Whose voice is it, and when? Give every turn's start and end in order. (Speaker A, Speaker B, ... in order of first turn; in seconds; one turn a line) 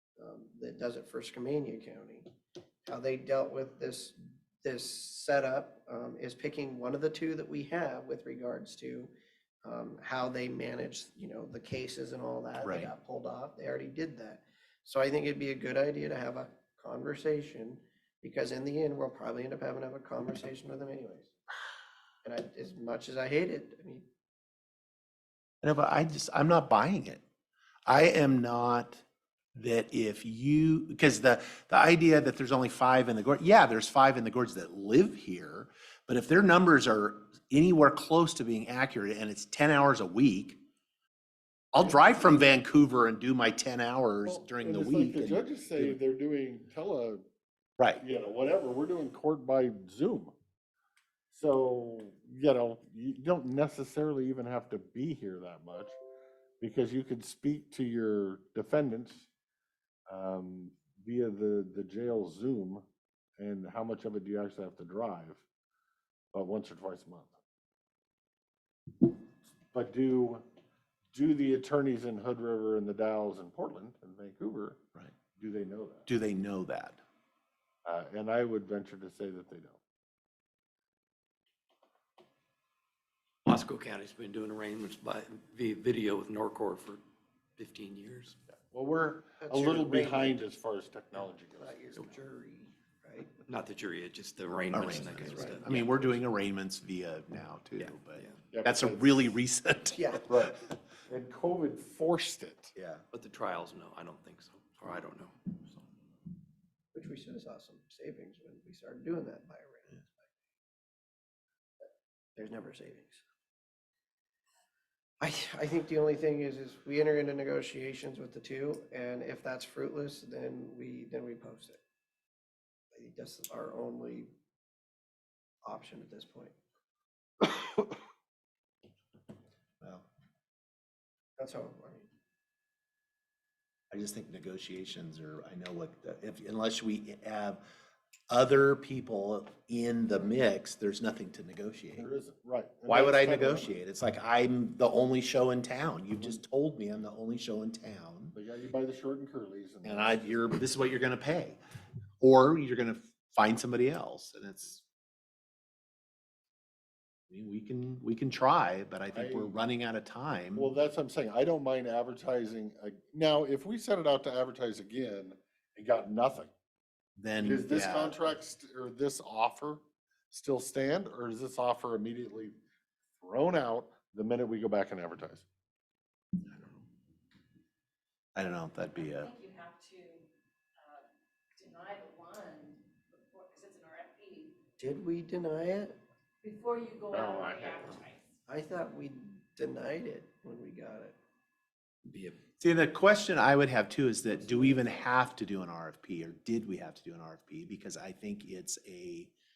Speaker A: 0.2-2.3
Speaker A: 2.8-9.1
Speaker A: 9.6-21.3
Speaker B: 12.6-12.9
Speaker A: 22.2-24.1
Speaker B: 25.6-27.2
Speaker B: 27.9-29.0
Speaker B: 29.5-40.6
Speaker B: 41.7-46.0
Speaker C: 44.2-47.2
Speaker C: 48.0-50.3
Speaker C: 51.3-56.0
Speaker C: 56.6-59.3
Speaker C: 60.1-62.8
Speaker C: 63.4-65.4
Speaker C: 66.3-67.4
Speaker C: 69.7-70.4
Speaker C: 71.1-74.8
Speaker C: 75.3-76.1
Speaker B: 76.1-77.0
Speaker C: 77.8-79.8
Speaker D: 83.4-87.0
Speaker D: 87.6-88.4
Speaker C: 88.7-91.8
Speaker A: 89.4-90.4
Speaker A: 91.6-93.3
Speaker D: 93.5-96.2
Speaker B: 94.7-100.6
Speaker A: 95.2-95.7
Speaker D: 97.8-98.4
Speaker C: 98.5-99.1
Speaker A: 99.9-100.3
Speaker C: 100.3-102.7
Speaker B: 102.8-103.0
Speaker D: 103.1-105.8
Speaker A: 106.9-110.3
Speaker A: 111.8-113.2
Speaker A: 115.2-121.8
Speaker A: 122.9-124.3
Speaker A: 125.6-126.5
Speaker B: 129.8-130.1
Speaker A: 131.4-132.1
Speaker B: 133.9-137.6
Speaker B: 138.3-142.1
Speaker C: 141.9-143.7
Speaker B: 142.9-148.3
Speaker C: 148.3-150.6
Speaker B: 149.8-151.6
Speaker B: 152.2-154.8
Speaker B: 157.3-160.7
Speaker C: 159.1-159.5
Speaker C: 160.6-166.5
Speaker B: 167.2-168.2
Speaker C: 167.4-172.6
Speaker C: 173.2-175.4
Speaker B: 178.3-179.3
Speaker E: 178.9-184.6
Speaker A: 184.8-185.9
Speaker E: 186.4-188.3
Speaker C: 187.1-187.9
Speaker A: 188.5-191.2
Speaker D: 192.0-192.4
Speaker B: 192.6-199.3